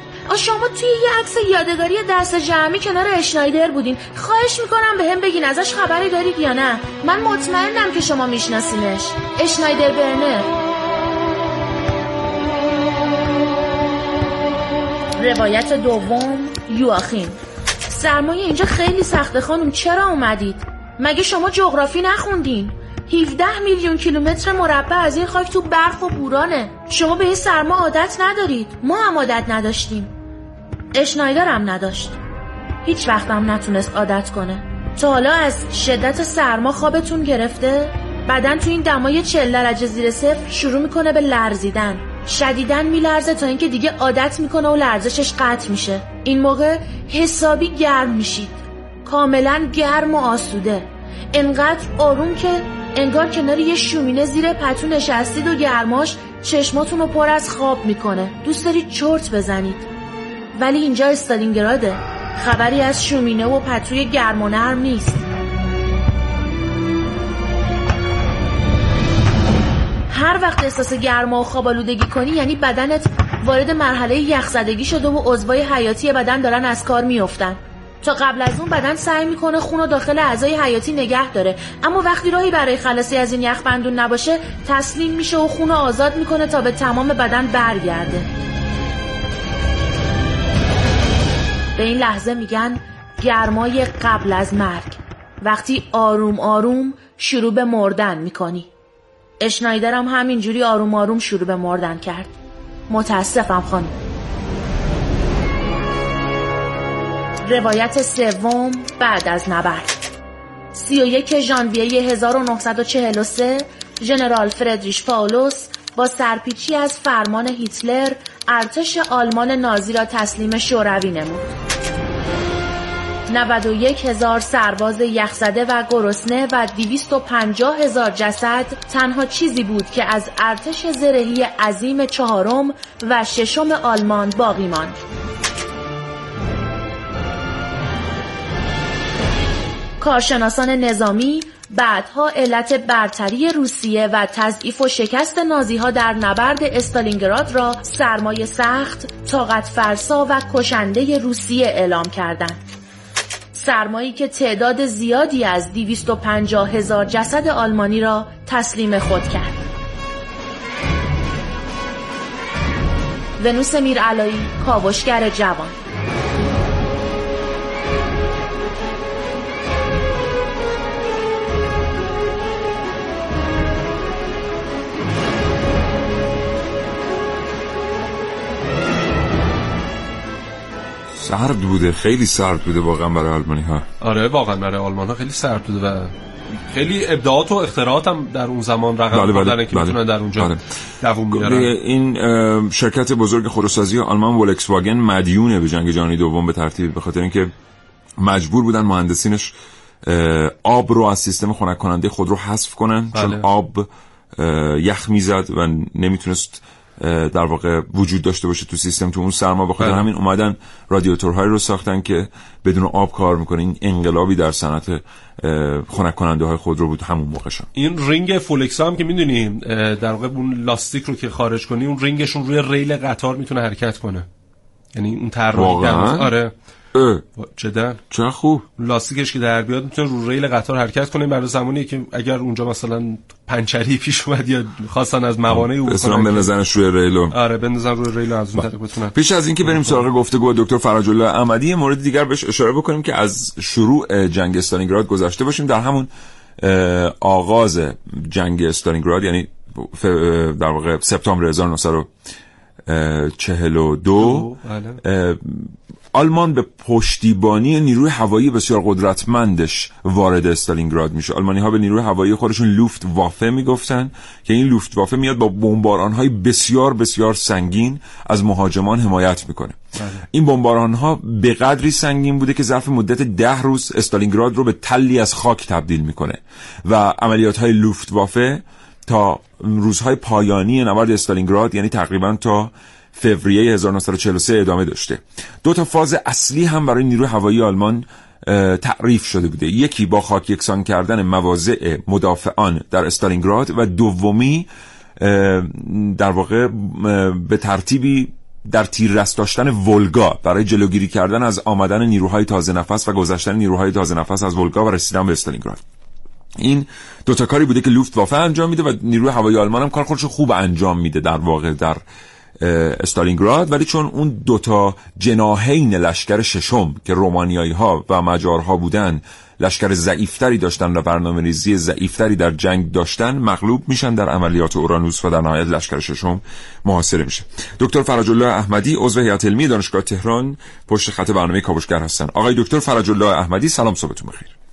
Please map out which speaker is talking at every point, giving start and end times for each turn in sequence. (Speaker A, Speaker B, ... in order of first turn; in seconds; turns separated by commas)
Speaker A: 0.3-10.5, Speaker A: 15.2-17.4, Speaker A: 17.9-30.1, Speaker A: 30.9-32.2, Speaker A: 32.8-59.9, Speaker A: 60.5-65.2, Speaker A: 70.1-88.3, Speaker A: 91.8-98.7, Speaker A: 99.4-102.3, Speaker A: 102.9-103.9, Speaker A: 107.4-110.0, Speaker A: 110.7-121.5, Speaker A: 123.3-135.0, Speaker A: 140.0-152.6, Speaker A: 153.5-159.7, Speaker A: 163.4-165.8, Speaker B: 181.1-183.8, Speaker C: 184.0-186.1, Speaker C: 186.7-191.7, Speaker B: 189.1-190.6, Speaker B: 191.3-197.5, Speaker B: 198.2-199.5, Speaker B: 200.0-217.7, Speaker C: 203.1-203.5, Speaker C: 209.8-210.0, Speaker C: 217.8-224.2, Speaker C: 224.9-226.5, Speaker B: 225.5-226.3, Speaker B: 226.9-227.2, Speaker C: 227.4-228.0, Speaker B: 228.1-228.7, Speaker C: 228.8-236.5, Speaker B: 235.5-237.3, Speaker C: 237.3-240.0, Speaker B: 238.6-252.1, Speaker B: 252.9-254.5, Speaker C: 254.2-255.0, Speaker B: 255.0-269.8, Speaker B: 270.3-294.7, Speaker B: 295.2-305.8, Speaker B: 306.6-312.0, Speaker B: 312.6-334.5